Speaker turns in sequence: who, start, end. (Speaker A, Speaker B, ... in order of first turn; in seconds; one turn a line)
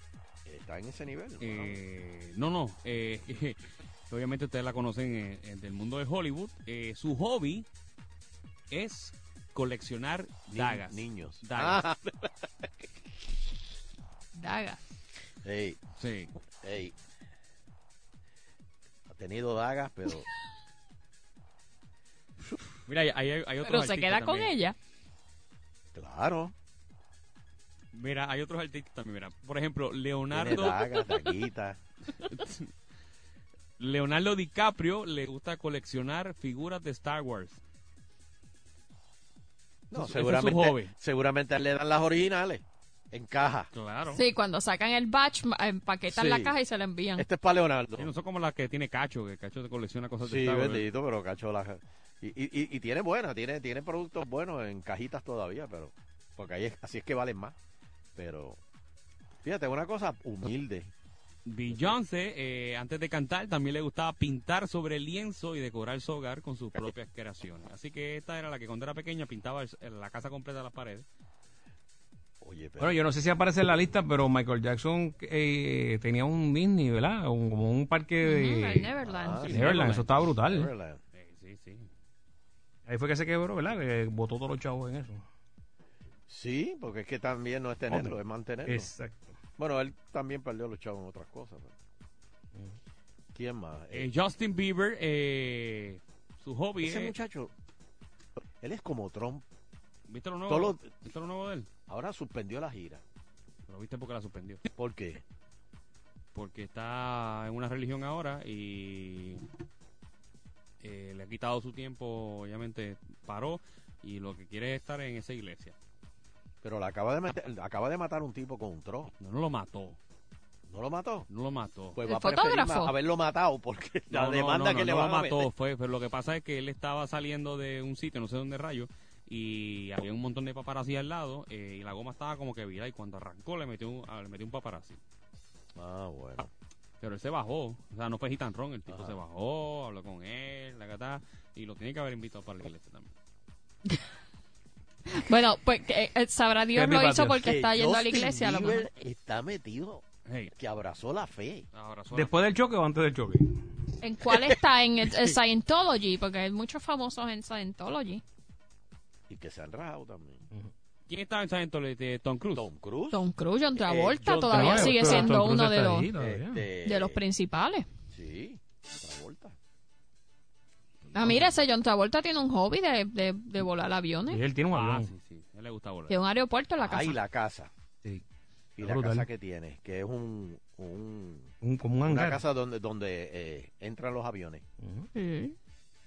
Speaker A: 0.5-1.8
Speaker B: 1.4-7.7
Speaker B: 8.7-11.8
Speaker A: 10.5-12.7
Speaker C: 14.3-14.8
Speaker A: 15.4-15.8
Speaker B: 16.0-16.3
Speaker A: 16.6-16.9
Speaker A: 19.1-20.3
Speaker B: 22.9-24.6
Speaker C: 23.6-24.7
Speaker A: 25.9-26.5
Speaker B: 27.9-31.0
Speaker A: 30.3-31.8
Speaker B: 32.2-32.7
Speaker B: 33.8-37.6
Speaker A: 39.9-43.7
Speaker B: 39.9-40.9
Speaker B: 43.7-44.2
Speaker C: 44.1-47.2
Speaker A: 46.1-46.5
Speaker A: 47.2-48.1
Speaker B: 48.0-50.9
Speaker A: 50.2-57.5
Speaker A: 58.1-58.6
Speaker A: 59.4-60.9
Speaker B: 61.5-71.0
Speaker A: 61.7-62.0
Speaker A: 72.4-73.0
Speaker D: 72.8-78.9
Speaker C: 78.2-79.5
Speaker A: 79.0-79.9
Speaker B: 79.4-80.1
Speaker D: 79.5-80.7
Speaker A: 80.5-81.0
Speaker B: 81.1-81.9
Speaker D: 82.9-85.2
Speaker A: 86.3-88.9
Speaker D: 87.9-89.4
Speaker A: 89.6-91.7
Speaker A: 93.3-94.1
Speaker B: 93.9-97.1
Speaker A: 96.8-97.5
Speaker A: 98.4-99.4
Speaker B: 100.1-101.7
Speaker A: 100.5-100.8
Speaker A: 101.9-103.0
Speaker B: 103.7-104.6
Speaker A: 104.8-105.2
Speaker B: 106.3-109.4
Speaker B: 110.8-115.7
Speaker A: 116.6-119.1
Speaker B: 119.2-120.0
Speaker A: 120.7-121.3
Speaker B: 121.3-122.0
Speaker A: 121.9-125.5
Speaker C: 122.0-122.9
Speaker B: 124.1-135.0
Speaker A: 135.7-136.5
Speaker B: 137.0-143.1
Speaker A: 138.9-139.2
Speaker C: 145.1-148.8
Speaker D: 146.7-147.4
Speaker A: 147.3-150.0
Speaker B: 150.3-150.5
Speaker A: 150.6-151.6
Speaker B: 151.7-152.3
Speaker D: 152.1-153.6
Speaker C: 154.0-158.2
Speaker A: 159.3-160.4
Speaker B: 161.1-162.7
Speaker A: 162.5-163.2
Speaker C: 163.1-166.1
Speaker A: 163.8-165.3
Speaker D: 164.5-166.6
Speaker A: 166.2-167.2
Speaker C: 166.8-167.8
Speaker A: 168.1-169.6
Speaker C: 171.1-174.4
Speaker D: 174.3-175.1
Speaker B: 174.7-176.2
Speaker C: 176.1-177.2
Speaker A: 176.8-177.7
Speaker A: 178.8-181.5
Speaker D: 178.8-179.3
Speaker D: 181.6-182.4
Speaker A: 182.1-184.6
Speaker D: 184.8-185.1
Speaker C: 185.1-185.6